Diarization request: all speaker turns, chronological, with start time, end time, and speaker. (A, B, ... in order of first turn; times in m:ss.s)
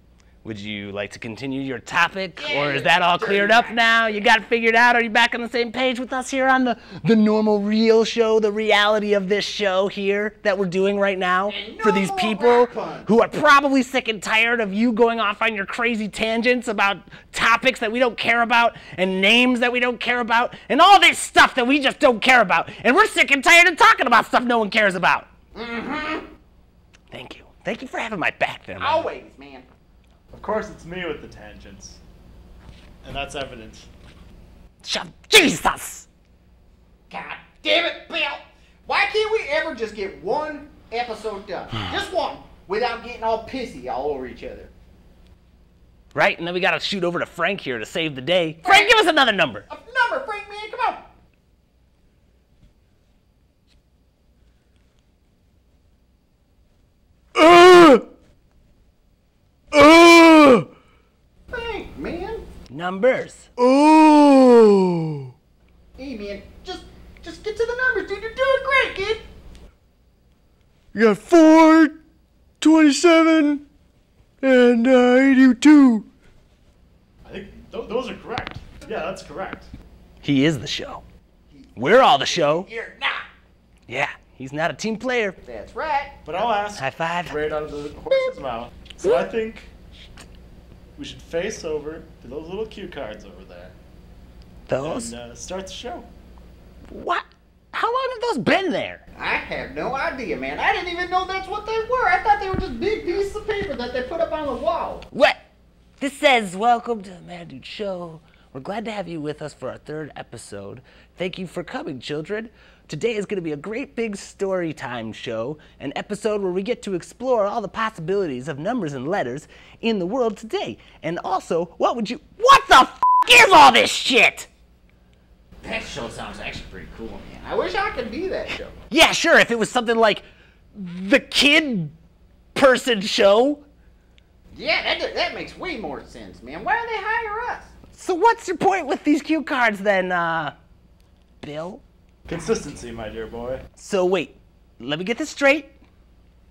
0:00.4-0:25.3 A
0:02.4-0:04.2 B
0:11.5-0:13.1 B
0:25.6-0:26.3 B
0:27.1-0:29.1 A
0:28.8-0:29.6 B
0:30.3-0:32.0 C
0:33.0-0:33.9 C
0:34.8-0:36.1 A
0:37.1-0:44.7 B
0:46.1-0:49.7 A
0:48.6-0:49.0 B
0:49.7-0:51.0 B
0:57.3-0:58.0 D
0:59.7-1:00.7 D
1:01.5-1:02.4 B
1:02.7-1:03.4 A
1:03.6-1:05.3 D
1:06.0-1:09.2 B
1:10.9-1:12.0 D
1:12.6-1:13.6 D
1:14.4-1:16.1 D
1:17.2-1:19.7 C
1:20.2-1:21.0 A
1:21.5-1:23.2 B
1:21.8-1:22.7 A
1:23.9-1:25.4 A
1:25.4-1:26.2 B
1:26.2-1:29.7 C
1:26.8-1:27.4 A
1:31.0-1:33.8 C
1:34.7-1:35.1 A
1:34.8-1:36.1 C
1:36.9-1:39.0 A
1:39.2-1:45.1 B
1:45.1-1:45.4 A
1:46.0-2:04.5 A
2:05.6-2:08.7 B
2:08.9-2:11.9 A
2:12.6-2:13.6 A
2:14.5-2:17.7 B
2:17.9-2:20.6 A
2:21.4-2:21.8 A
2:22.3-2:23.6 C
2:23.8-2:25.7 A